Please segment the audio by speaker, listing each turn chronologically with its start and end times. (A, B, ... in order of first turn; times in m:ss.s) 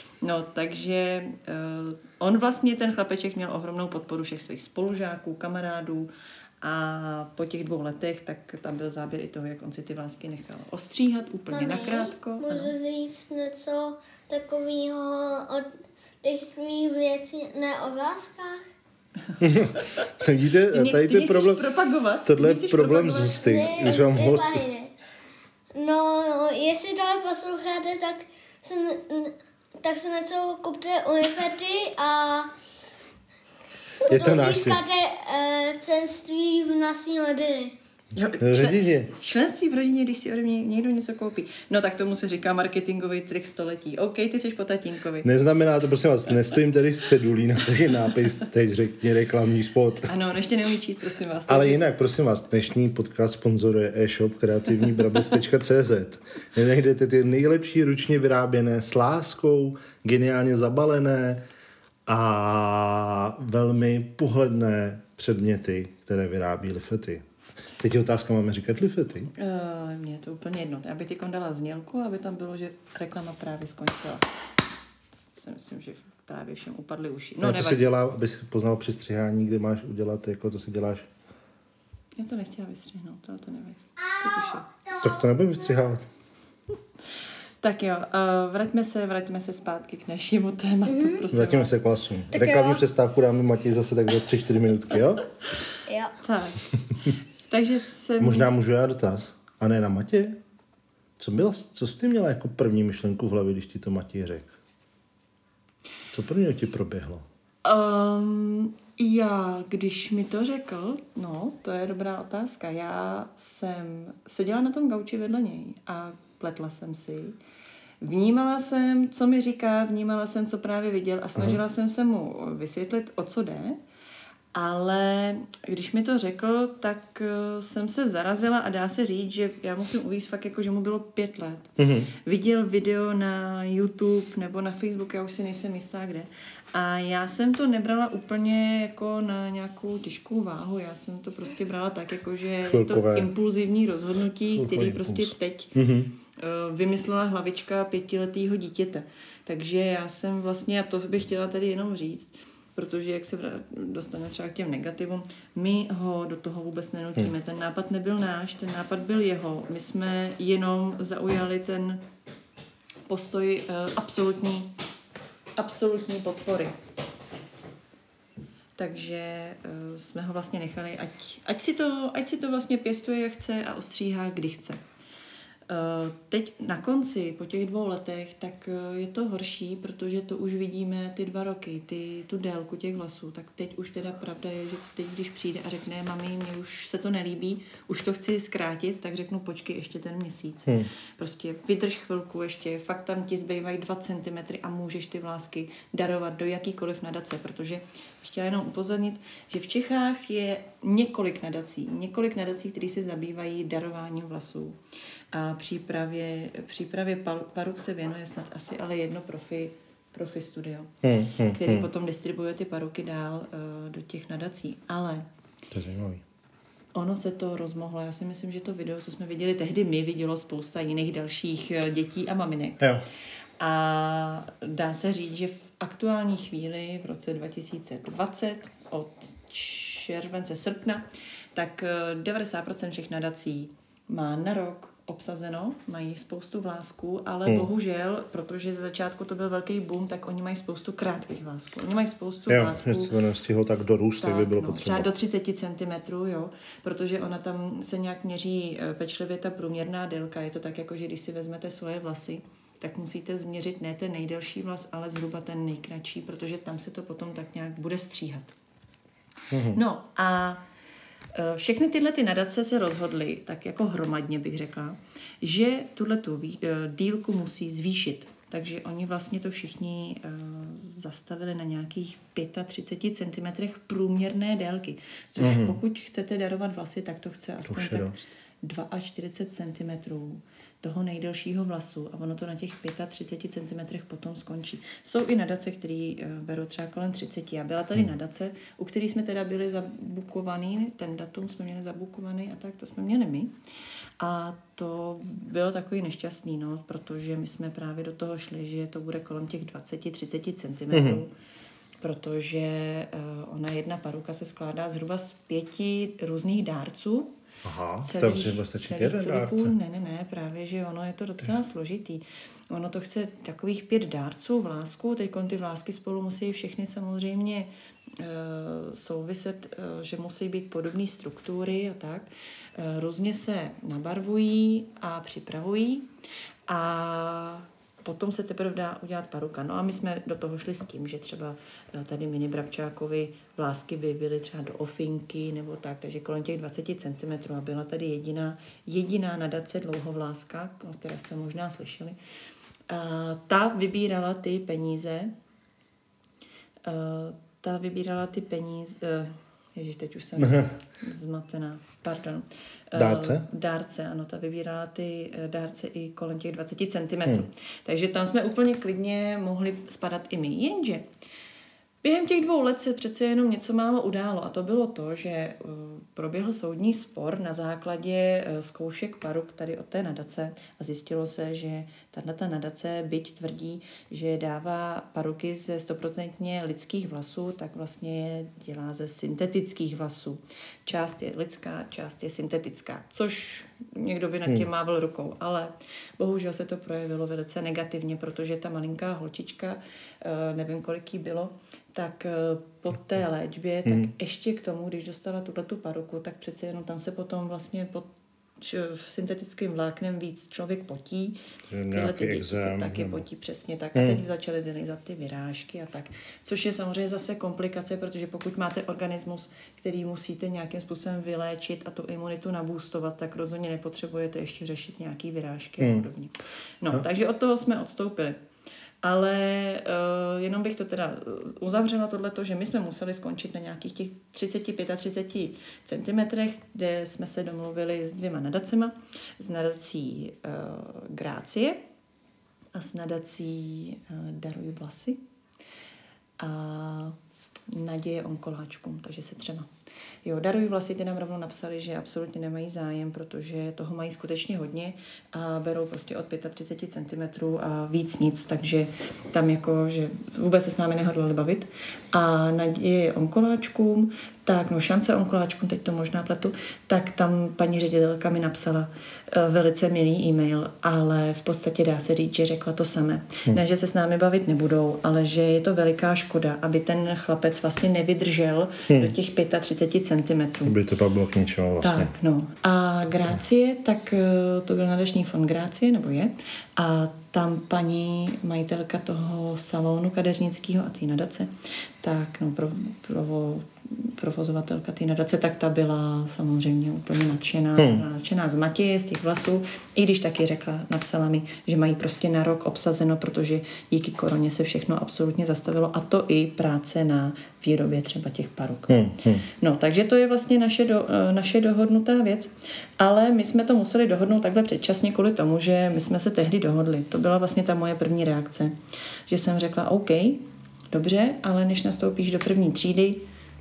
0:00.2-0:06.1 A
0:06.6-0:12.7 A
0:11.5-0:15.7 B
0:16.2-0:18.6 B
0:19.4-0:21.6 C
0:19.6-0:20.1 A
0:20.7-0:24.0 A
0:22.3-0:24.6 C
0:23.4-0:24.9 B
0:25.7-0:32.5 B
0:34.0-0:37.8 B
0:34.0-0:34.8 C
0:38.1-0:45.3 A
0:38.4-0:39.1 C
0:45.2-0:50.1 C
0:50.0-0:51.8 A
0:51.5-1:01.4 C
1:02.1-1:07.2 C
1:07.8-1:09.3 C
1:09.4-1:14.3 A
1:15.3-1:17.9 A
1:17.4-1:21.1 C
1:22.2-1:24.7 A
1:24.4-1:25.1 B
1:25.0-1:26.0 C
1:27.6-1:31.8 A
1:30.9-1:31.2 B
1:31.3-1:35.3 C
1:32.3-1:32.8 B
1:35.9-1:36.2 B
1:36.2-1:38.5 A
1:38.2-1:40.4 C
1:41.2-1:44.6 C
1:46.1-1:47.2 C
1:47.6-1:57.4 A
1:58.0-2:03.8 A
2:04.5-2:25.8 A
2:11.8-2:12.1 C
2:22.6-2:23.3 C
2:24.6-2:26.1 C
2:26.3-2:42.0 A
2:43.1-2:44.7 A
2:45.6-2:46.8 A
2:48.8-2:54.8 A
2:55.7-3:24.8 A
3:25.3-3:35.3 A
3:31.0-3:31.9 C
3:35.7-3:36.2 C
3:37.0-3:42.9 A
3:43.6-4:03.1 A
4:02.5-4:05.1 C
4:04.2-4:18.5 A
4:19.5-4:19.8 C
4:19.7-4:20.6 A
4:21.3-4:53.6 A
4:35.4-4:35.8 C
4:37.7-4:38.2 C
4:54.2-5:01.3 A
5:00.9-5:01.2 C
5:02.0-5:07.3 A
5:07.6-5:09.7 C
5:08.0-5:26.1 A
5:26.7-5:42.2 A
5:42.9-5:45.3 A
5:46.8-6:01.1 A
5:50.4-5:50.7 C
5:53.0-5:53.5 C
6:02.0-6:38.1 A
6:33.9-6:34.1 C
6:38.6-6:41.4 A
6:41.7-6:43.2 C
6:41.9-6:58.4 A
6:44.0-6:44.2 C
6:55.8-6:56.1 C
6:59.0-7:11.8 A
7:12.7-7:15.2 A
7:16.4-7:17.2 A
7:17.7-7:19.7 A
7:20.2-7:50.8 A
7:50.6-7:52.1 C
7:51.8-8:28.8 A
8:07.8-8:08.0 C
8:18.9-8:19.5 C
8:29.3-8:33.2 A